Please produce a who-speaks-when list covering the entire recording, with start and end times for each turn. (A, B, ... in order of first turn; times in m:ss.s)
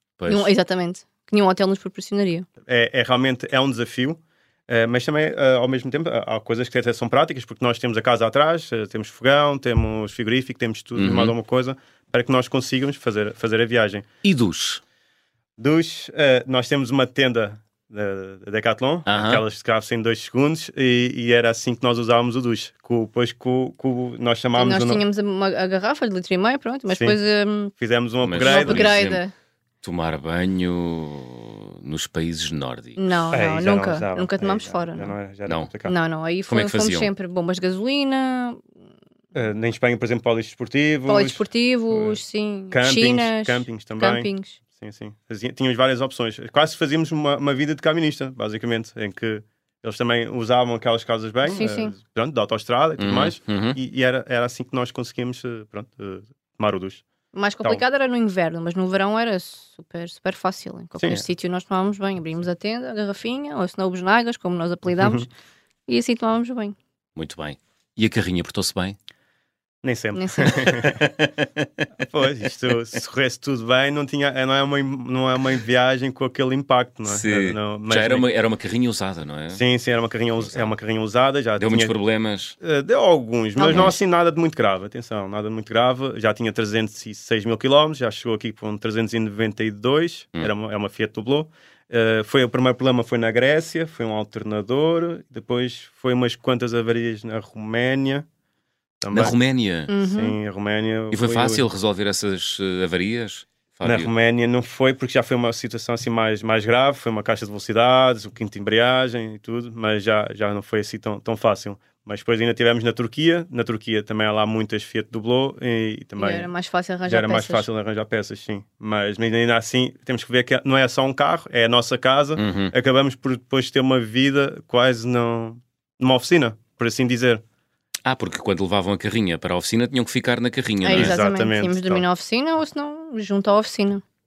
0:00.2-0:00.5 A
0:00.3-0:02.5 B
0:02.6-0:14.0 C
0:11.0-0:11.3 A
0:14.2-0:14.8 A
0:15.6-0:25.0 C
0:19.1-0:19.4 A
0:24.5-0:27.7 B
0:26.9-0:27.2 C
0:27.7-0:29.0 C
0:28.2-0:29.2 A
0:28.4-0:29.3 B
0:29.8-0:33.0 A
0:33.0-0:35.1 B
0:33.3-0:35.9 C
0:35.4-0:35.7 A
0:35.8-0:38.6 B
0:36.5-0:37.1 A
0:39.3-0:42.2 C
0:41.1-0:44.6 B
0:42.7-0:57.0 C
0:51.4-0:51.9 B
0:53.0-0:53.8 A
0:57.3-1:05.3 B
1:01.0-1:01.2 C
1:05.0-1:05.2 C
1:05.9-1:06.8 B
1:07.2-1:09.0 A
1:09.8-1:11.4 C
1:10.1-1:10.7 B
1:12.0-1:18.2 C
1:17.0-1:19.6 A
1:19.5-1:21.9 C
1:20.4-1:20.7 A
1:21.6-1:22.6 A
1:22.6-1:38.2 C
1:23.6-1:23.9 B
1:23.7-1:24.0 A
1:39.0-1:39.3 C
1:39.1-1:39.9 A
1:39.9-1:40.4 B
1:40.0-1:41.6 C
1:41.1-1:44.1 A
1:43.8-1:56.5 C
1:56.2-1:57.7 B
1:57.1-2:07.4 C
2:02.4-2:02.7 A
2:08.0-2:11.2 A
2:10.8-2:14.0 B
2:10.9-2:12.0 C